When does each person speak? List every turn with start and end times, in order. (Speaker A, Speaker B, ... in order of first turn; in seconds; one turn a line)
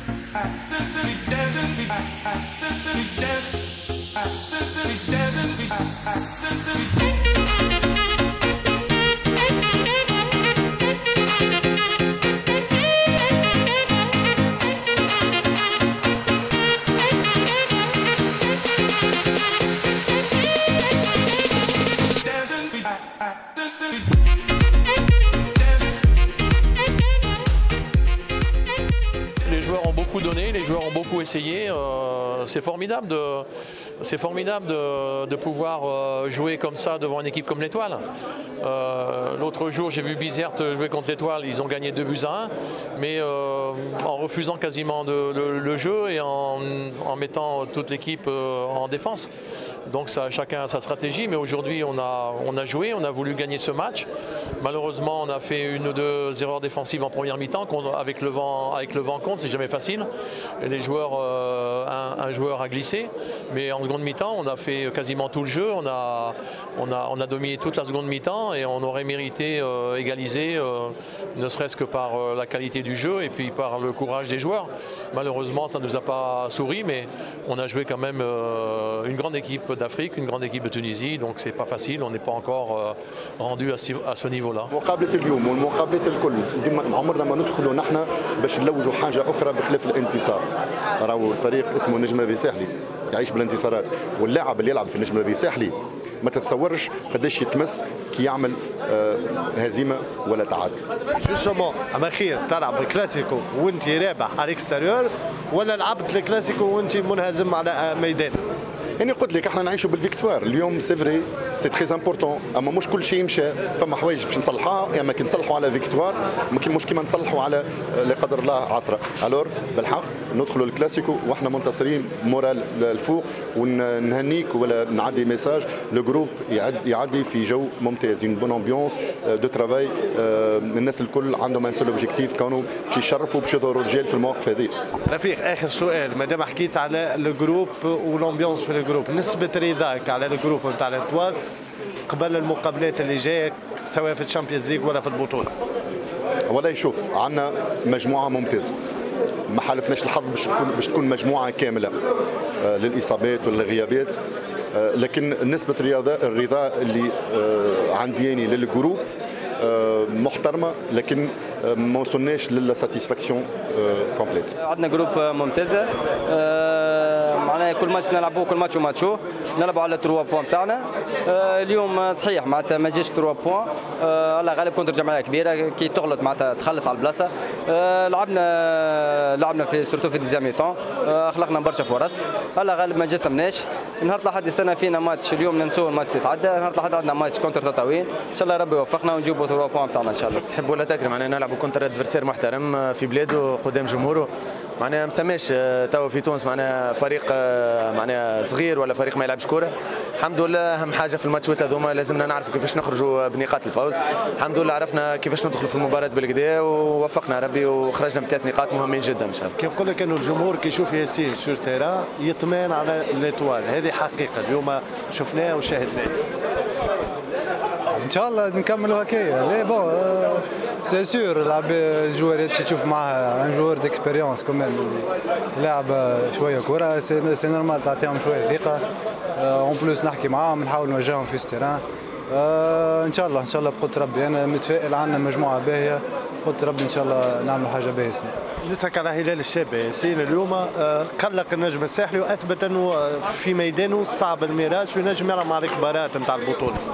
Speaker A: 29.4-33.5
Speaker A: 34.0-38.0
Speaker A: 38.6-49.3
Speaker A: 49.9-54.1
Speaker A: 54.6-60.1
Speaker A: 60.6-84.7
Speaker B: 84.7-90.4
Speaker B: 91.0-100.8
Speaker C: 101.2-108.4
Speaker B: 109.0-134.7
Speaker C: 135.1-141.4
Speaker C: 142.1-145.5
Speaker B: 146.5-148.8
Speaker B: 149.5-152.0
Speaker B: 152.6-154.2
Speaker B: 154.8-164.6
Speaker D: 164.6-190.4
Speaker E: 190.4-209.5
Speaker C: 209.6-216.1
Speaker F: 218.0-228.8
Speaker F: 229.4-238.3
Speaker C: 238.6-246.8